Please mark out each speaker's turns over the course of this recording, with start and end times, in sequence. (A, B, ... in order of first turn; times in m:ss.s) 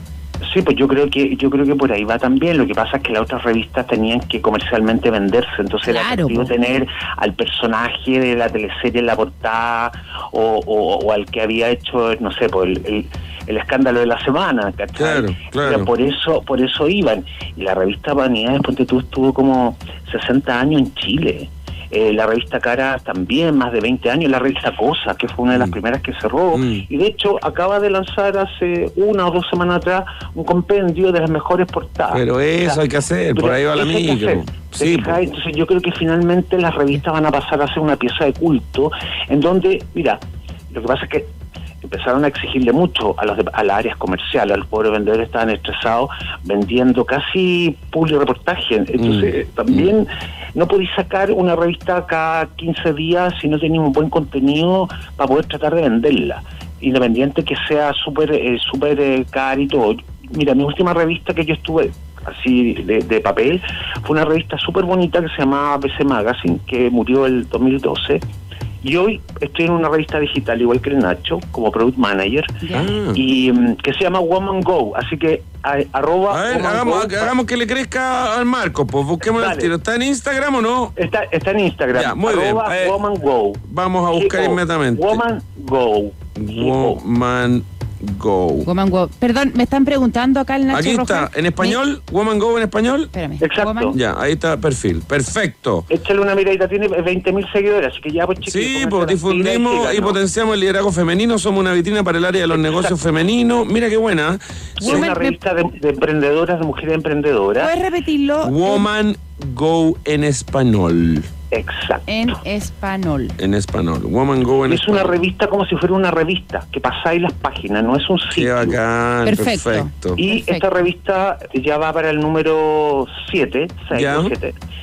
0:00.4-0:32.8 A
0:05.8-0:06.5 B
0:15.0-0:15.9 C
0:26.5-0:26.8 C
0:32.1-0:35.2 C
0:33.3-0:41.3 A
0:41.8-1:08.2 A
1:08.8-1:17.3 A
1:12.6-1:12.9 B
1:12.7-1:13.2 C
1:16.3-1:20.9 C
1:19.2-1:19.7 A
1:21.0-1:27.0 A
1:21.9-1:23.0 C
1:23.6-1:25.2 C
1:26.4-1:28.7 C
1:28.6-1:31.8 B
1:30.7-1:33.1 C
1:33.1-1:33.9 B
1:33.4-1:34.0 A
1:33.9-1:35.9 C
1:35.9-1:40.2 A
1:38.4-1:45.1 C
1:42.6-1:42.9 A
1:44.8-1:45.4 B
1:44.8-1:47.7 A
1:47.6-1:48.9 B
1:48.4-1:51.3 C
1:51.5-1:52.3 A
1:52.1-1:53.3 B
1:53.4-1:55.2 C
1:54.6-1:58.8 A
1:58.3-2:00.2 C
1:59.2-2:00.7 B
2:00.2-2:04.5 A
2:03.9-2:04.3 C